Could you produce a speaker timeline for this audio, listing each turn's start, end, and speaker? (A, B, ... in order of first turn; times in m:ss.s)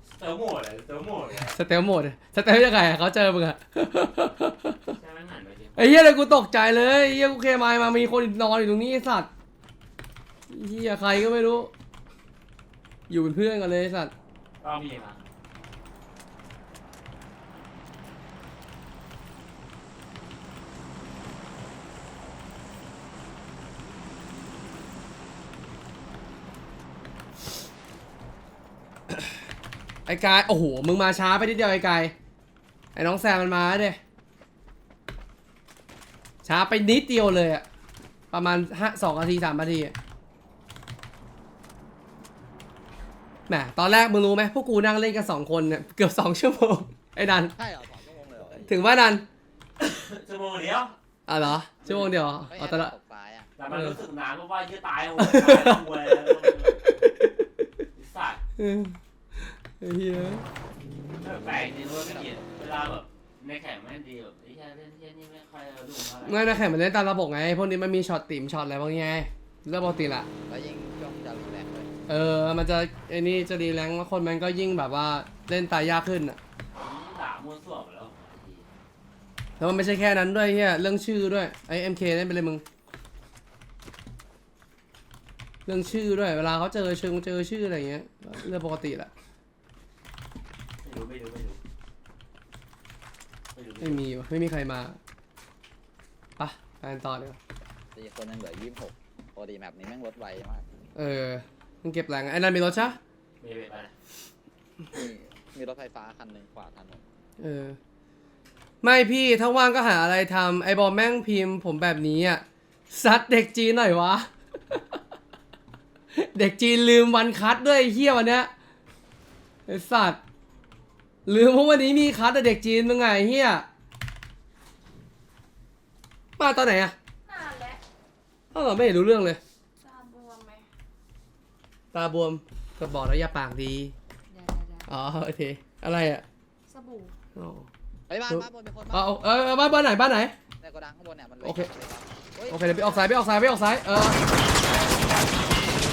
0:00.1-0:01.6 A
0:01.5-0:05.0 B
0:04.9-0:05.9 A
0:05.8-0:09.3 B
0:10.5-0:11.7 B
0:13.1-0:14.1 B
0:14.6-0:15.2 A
0:29.1-0:29.4 B
0:30.0-0:32.1 B
0:32.9-0:34.0 B
0:36.4-0:37.6 B
0:38.3-0:39.9 B
0:43.5-0:47.5 B
0:47.6-0:48.8 C
0:48.6-0:49.2 B
0:49.8-0:51.0 A
0:51.3-0:52.9 B
0:51.8-0:52.1 A
0:52.5-0:53.5 C
0:53.6-0:56.9 A
0:53.7-0:54.0 B
0:55.2-0:57.6 B
0:57.9-0:58.4 A
0:58.6-1:00.4 B
1:01.2-1:06.5 A
1:01.8-1:02.4 C
1:06.2-1:10.3 B
1:10.4-1:11.9 C
1:12.1-1:16.4 B
1:16.7-1:18.7 A
1:19.6-1:22.6 B
1:25.6-1:29.1 B
1:30.8-1:31.6 A
1:33.5-1:34.0 A
1:33.8-1:35.0 B
1:36.4-1:37.4 B
1:37.9-1:40.7 C
1:40.9-1:43.0 B
1:43.4-1:43.9 A
1:44.9-1:47.0 C
1:47.4-1:47.8 B
1:48.8-1:55.0 B
1:56.1-1:58.5 B
1:59.7-2:00.2 B
2:01.2-2:03.7 B
2:06.4-2:06.9 B
2:07.2-2:07.8 D
2:08.5-2:09.4 B
2:09.8-2:10.7 D
2:11.9-2:13.9 B
2:14.3-2:14.9 D
2:14.9-2:16.2 B
2:16.7-2:17.1 D
2:17.3-2:17.7 B
2:18.1-2:19.2 C
2:18.3-2:20.3 B
2:20.6-2:23.2 C
2:21.4-2:21.7 B
2:22.5-2:24.2 B
2:24.6-2:25.2 A